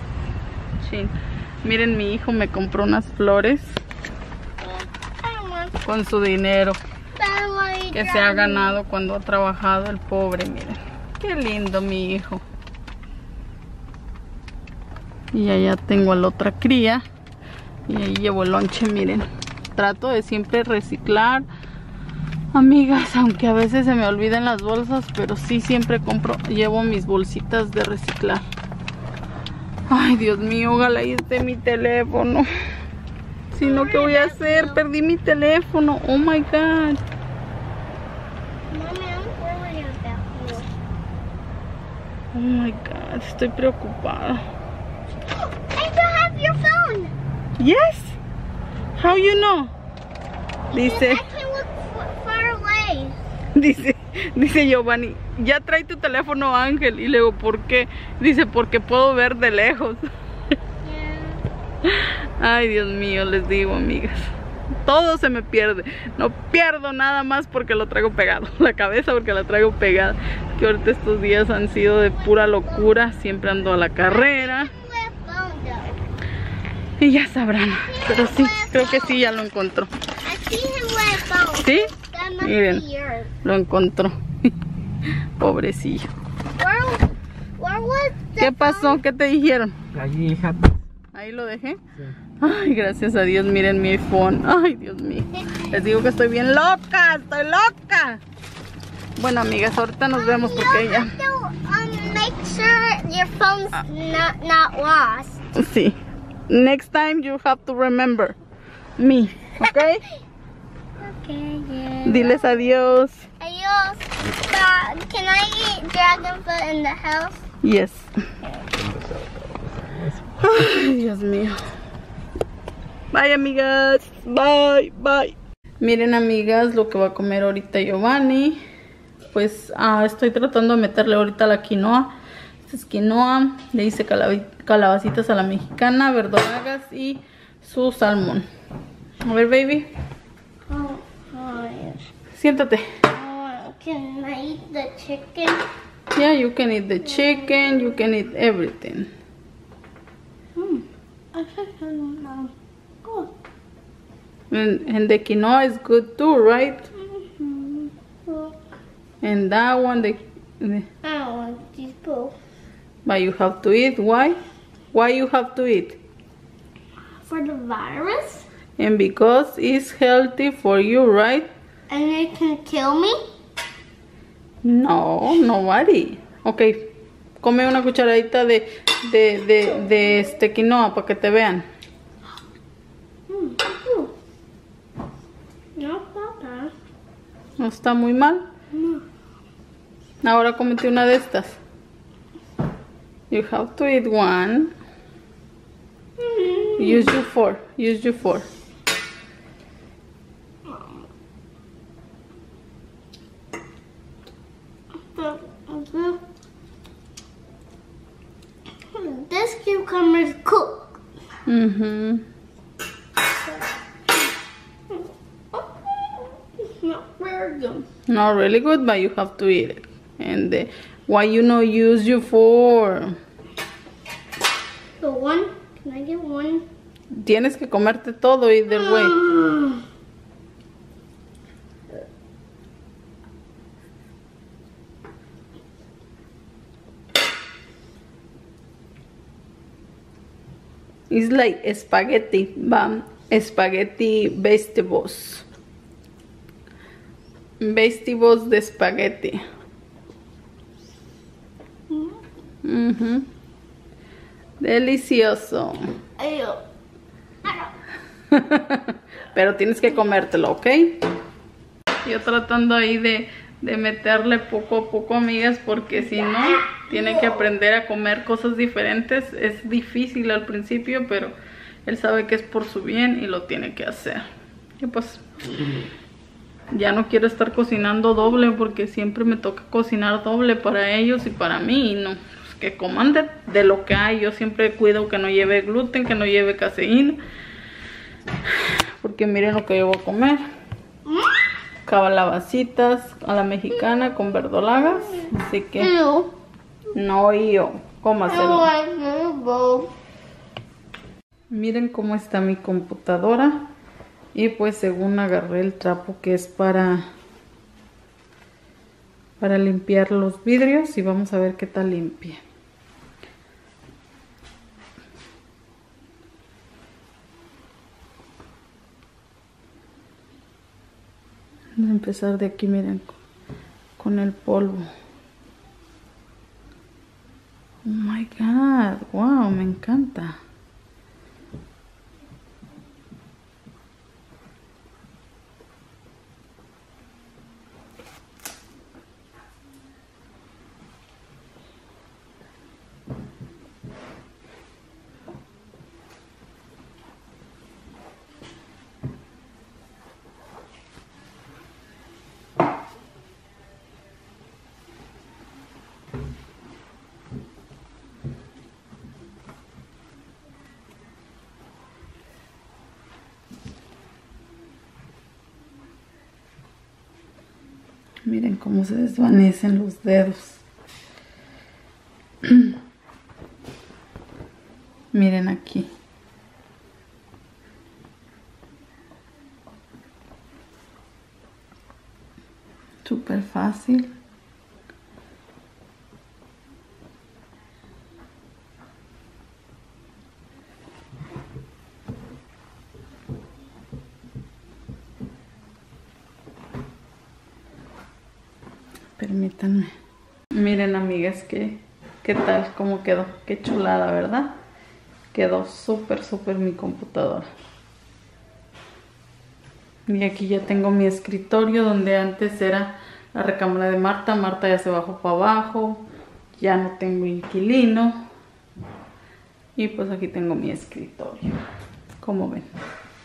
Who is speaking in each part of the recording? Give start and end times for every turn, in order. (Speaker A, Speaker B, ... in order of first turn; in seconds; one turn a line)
Speaker A: 0.8-3.8
Speaker B: 4.6-5.8
Speaker A: 5.8-6.8
Speaker B: 7.2-8.8
Speaker A: 7.9-12.4
Speaker A: 15.3-17.0
Speaker A: 17.9-21.5
Speaker A: 22.5-28.4
Speaker A: 29.9-32.5
Speaker A: 33.5-37.0
Speaker B: 33.6-34.8
Speaker B: 38.7-40.7
Speaker A: 42.3-44.4
Speaker B: 45.7-47.1
Speaker A: 47.6-48.2
Speaker A: 49.0-49.7
Speaker B: 50.7-53.2
Speaker A: 50.7-51.2
Speaker A: 53.5-60.0
Speaker B: 60.8-61.4
Speaker A: 61.8-64.2
Speaker A: 64.8-74.7
Speaker B: 72.2-73.0
Speaker B: 74.0-76.0
Speaker A: 77.0-79.9
Speaker B: 77.8-79.3
Speaker B: 80.2-83.3
Speaker A: 81.6-82.8
Speaker A: 83.4-84.2
Speaker A: 85.4-86.1
Speaker B: 86.5-89.0
Speaker A: 88.4-89.8
Speaker C: 90.0-90.7
Speaker A: 91.1-91.8
Speaker A: 92.4-98.2
Speaker A: 99.2-101.2
Speaker B: 100.1-105.4
Speaker A: 105.5-106.0
Speaker A: 106.5-108.4
Speaker A: 109.0-110.0
Speaker B: 111.0-112.7
Speaker A: 112.0-113.3
Speaker B: 113.4-117.4
Speaker A: 117.6-118.1
Speaker C: 118.8-120.1
Speaker A: 120.4-121.6
Speaker A: 123.1-128.6
Speaker A: 129.3-132.1
Speaker A: 132.7-138.5
Speaker A: 139.2-139.9
Speaker B: 140.7-142.0
Speaker A: 142.3-143.0
Speaker B: 143.1-145.7
Speaker A: 146.2-149.1
Speaker B: 147.1-148.1
Speaker B: 150.6-152.5
Speaker B: 153.0-153.3
Speaker A: 154.5-156.9
Speaker B: 157.1-158.6
Speaker A: 159.2-160.9
Speaker B: 161.0-162.3
Speaker A: 163.1-164.4
Speaker A: 164.9-166.0
Speaker B: 167.3-168.5
Speaker A: 168.8-171.5
Speaker B: 171.9-173.2
Speaker A: 174.6-181.7
Speaker B: 179.8-180.2
Speaker B: 183.3-184.1
Speaker B: 185.8-186.7
Speaker A: 187.6-188.5
Speaker B: 188.7-189.0
Speaker A: 190.2-191.6
Speaker A: 193.3-194.7
Speaker B: 196.2-197.2
Speaker A: 196.8-198.5
Speaker B: 205.2-206.2
Speaker B: 208.9-211.0
Speaker A: 211.5-212.2
Speaker B: 213.4-213.8
Speaker B: 215.0-217.8
Speaker A: 218.1-223.1
Speaker B: 225.0-226.7
Speaker A: 227.1-229.2
Speaker B: 228.7-229.8
Speaker A: 241.1-245.4
Speaker A: 247.6-249.4
Speaker B: 251.9-252.2
Speaker A: 252.6-253.3
Speaker A: 254.6-255.9
Speaker B: 256.2-256.6
Speaker B: 257.4-257.7
Speaker A: 258.3-261.0
Speaker A: 262.0-274.2
Speaker B: 266.1-267.4
Speaker A: 274.8-275.2
Speaker A: 276.7-287.2
Speaker A: 288.5-290.4
Speaker A: 291.9-295.9
Speaker B: 295.8-296.3
Speaker A: 296.9-298.7
Speaker B: 298.3-299.9
Speaker A: 301.5-303.7
Speaker A: 304.3-307.1
Speaker A: 309.4-312.4
Speaker A: 321.8-323.2
Speaker A: 324.0-324.9
Speaker A: 327.9-330.4
Speaker A: 368.3-370.6
Speaker A: 372.4-372.8
Speaker A: 375.1-375.9
Speaker A: 383.1-384.1
Speaker A: 399.2-399.9
Speaker A: 400.5-404.5
Speaker A: 405.3-407.5
Speaker A: 410.1-418.2
Speaker A: 419.8-421.6
Speaker A: 422.2-422.7